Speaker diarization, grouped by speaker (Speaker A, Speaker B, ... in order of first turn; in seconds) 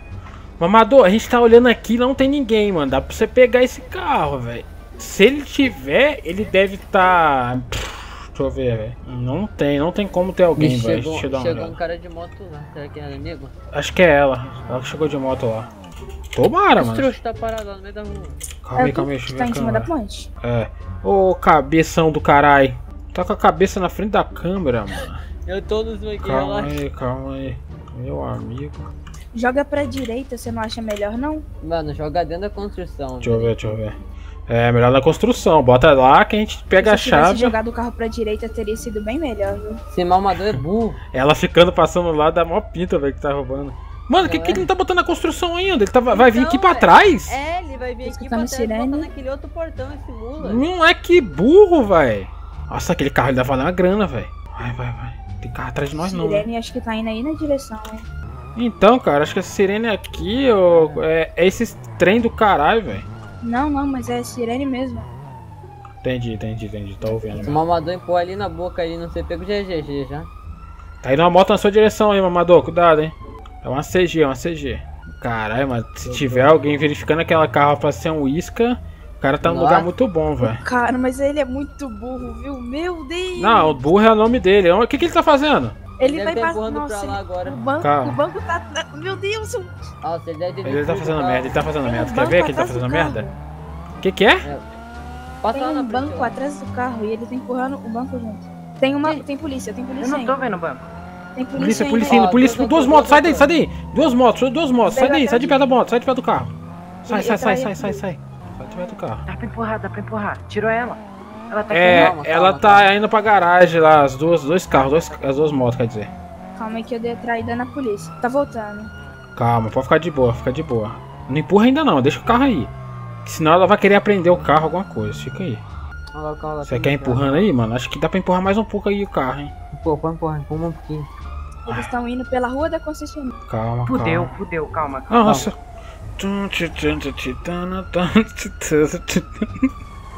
Speaker A: 0.6-11.8, 13.7-15.7, 16.3-17.1, 18.6-25.2, 26.2-28.9, 33.2-34.0, 34.5-37.6, 41.1-47.4, 50.4-56.5, 58.5-63.1, 66.0-67.6, 71.0-80.6, 83.4-85.8, 87.8-88.2, 90.6-93.2, 94.0-94.5, 101.6-106.5, 107.0-109.2, 111.7-116.1, 119.3-122.7, 123.2-125.6, 126.7-129.5, 133.5-134.3, 135.1-135.6, 136.2-139.7
Speaker B: 10.6-13.5, 16.8-18.4, 25.4-26.8, 31.6-33.8, 39.9-41.0, 44.1-44.7, 46.1-50.6, 60.7-61.0, 67.4-70.3, 76.0-76.6, 79.4-79.9, 86.0-87.6, 90.0-91.6, 95.4-96.4, 101.8-103.5, 111.9-112.9, 126.1-127.5, 129.7-131.1
Speaker C: 18.8-20.3, 29.3-31.4, 36.8-39.8, 48.0-49.1, 56.0-58.0, 63.4-65.1, 80.4-83.8, 86.0-89.7, 91.8-93.4, 95.5-100.4, 101.3-102.3, 104.8-105.6, 107.0-108.0, 116.5-118.9, 131.6-133.3
Speaker D: 100.0-100.8, 109.2-112.2, 133.9-135.4